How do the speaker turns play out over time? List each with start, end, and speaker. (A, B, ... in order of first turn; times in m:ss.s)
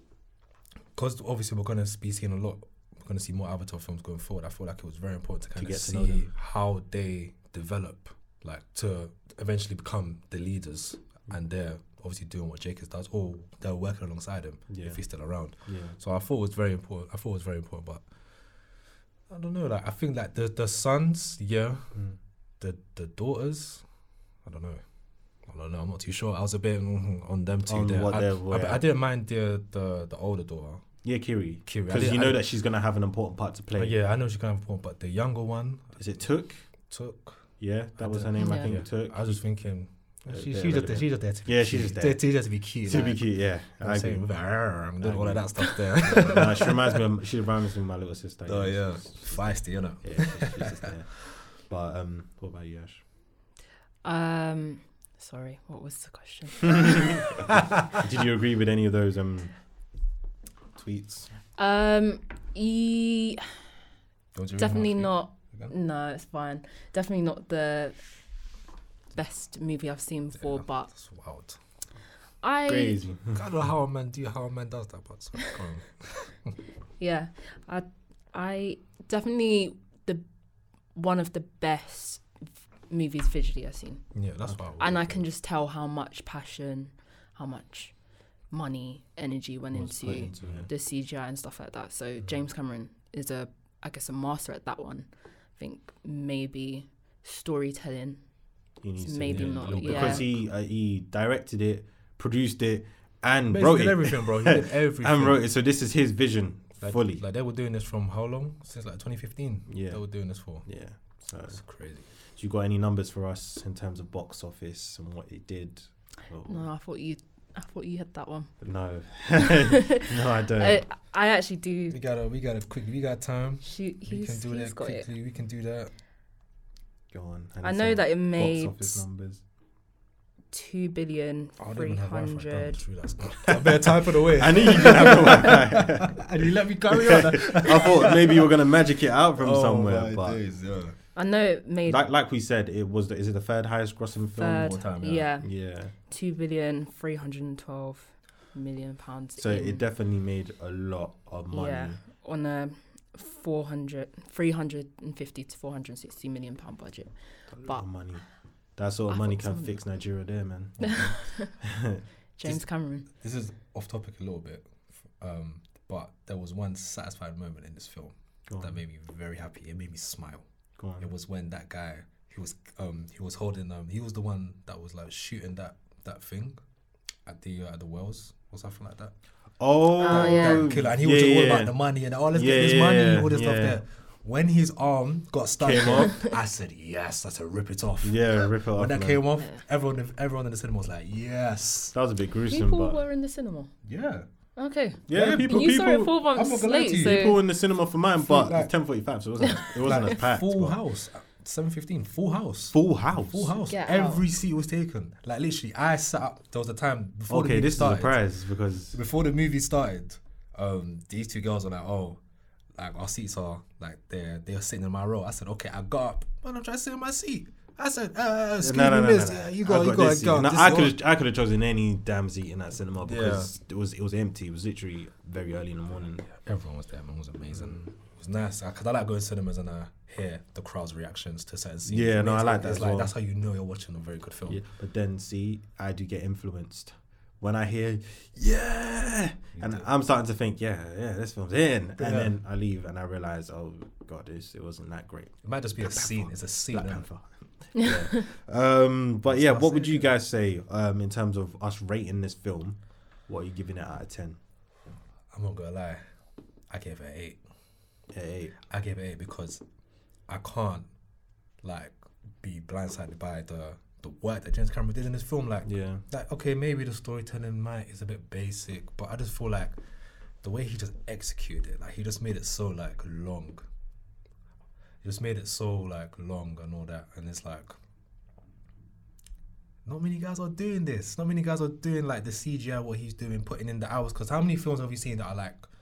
0:01.0-0:18.0 A
0:05.6-0:06.3 B
0:14.7-0:15.0 B
0:15.7-0:16.0 B
0:19.3-0:22.0 A
0:22.6-0:23.9 A
0:24.4-0:24.8 A
0:25.5-0:30.9 A
0:27.7-0:28.8 B
0:31.0-0:34.0 B
0:31.7-0:32.4 A
0:33.8-0:36.0 A
0:36.0-0:36.6 B
0:36.9-0:43.3 A
0:37.6-0:39.4 B
0:38.4-0:38.8 C
0:40.3-0:42.2 B
0:42.8-0:44.3 B
0:43.8-0:47.0 A
0:45.0-0:53.0 B
0:48.5-0:51.4 A
0:54.0-0:57.2 C
0:56.8-0:59.5 B
0:57.2-0:58.0 A
1:00.8-1:01.3 B
1:01.6-1:03.4 C
1:04.4-1:05.7 A
1:04.6-1:08.0 C
1:09.1-1:10.9 C
1:10.4-1:11.6 A
1:12.4-1:13.0 C
1:12.7-1:13.4 B
1:13.3-1:16.6 A
1:17.0-1:20.2 C
1:21.0-1:22.2 C
1:22.9-1:24.0 C
1:24.2-1:25.2 A
1:24.8-1:27.9 C
1:28.5-1:38.2 C
1:29.7-1:30.7 B
1:30.4-1:30.7 A
1:38.8-1:47.2 B
1:39.0-1:40.3 C
1:39.2-1:40.3 A
1:43.5-1:45.5 A
1:46.8-1:50.7 A
1:49.7-1:50.0 B
1:50.6-1:51.6 B
1:51.5-1:52.1 A
1:52.4-1:56.6 B
1:56.5-1:58.5 C
1:58.6-2:00.8 B
1:59.4-2:02.0 C
2:01.9-2:05.9 A
2:03.6-2:05.1 C
2:07.1-2:09.4 B
2:07.6-2:09.0 C
2:10.5-2:12.8 C
2:11.6-2:18.6 A
2:14.3-2:16.2 B
2:16.9-2:20.4 B
2:19.4-2:21.0 A
2:21.2-2:22.0 C
2:21.9-2:24.8 B
2:24.4-2:25.5 C
2:24.6-2:25.3 A
2:25.4-2:25.9 B
2:26.1-2:29.8 C
2:29.4-2:32.0 B
2:31.5-2:37.8 C
2:37.5-2:38.2 B
2:38.8-2:41.1 B
2:39.1-2:39.8 C
2:40.8-2:41.5 C
2:41.6-2:42.0 B
2:42.4-2:43.1 C
2:42.4-2:50.4 A
2:48.5-2:48.8 B
2:50.8-2:51.1 B
2:51.0-2:56.6 A
2:57.3-2:59.1 A
2:59.6-3:01.7 B
3:00.0-3:00.7 C
3:00.1-3:12.0 A
3:02.3-3:03.8 B
3:05.6-3:06.2 B
3:05.7-3:06.3 C
3:08.0-3:09.2 B
3:11.9-3:13.0 B
3:12.5-3:13.7 C
3:13.8-3:14.3 A
3:14.6-3:17.4 C
3:15.1-3:16.1 B
3:15.1-3:17.4 A
3:17.0-3:20.8 B
3:18.2-3:18.7 A
3:19.6-3:28.2 A
3:22.7-3:23.6 B
3:23.7-3:24.2 C
3:27.3-3:29.0 B
3:28.9-3:32.2 A
3:32.8-3:41.0 A
3:38.6-3:46.3 B
3:43.0-3:43.5 A
3:46.3-3:54.6 A
3:51.9-3:53.1 B
3:54.5-4:14.4 B
3:59.6-3:59.9 A
4:02.0-4:02.3 A
4:05.4-4:07.1 A
4:09.3-4:10.2 A
4:15.3-4:16.0 A
4:16.7-4:17.4 A
4:18.1-4:18.6 B
4:18.7-4:19.6 A
4:20.3-4:20.9 A
4:21.6-4:29.8 A
4:25.6-4:26.0 B
4:30.4-4:33.6 A
4:35.0-4:37.8 A
4:39.8-4:45.7 A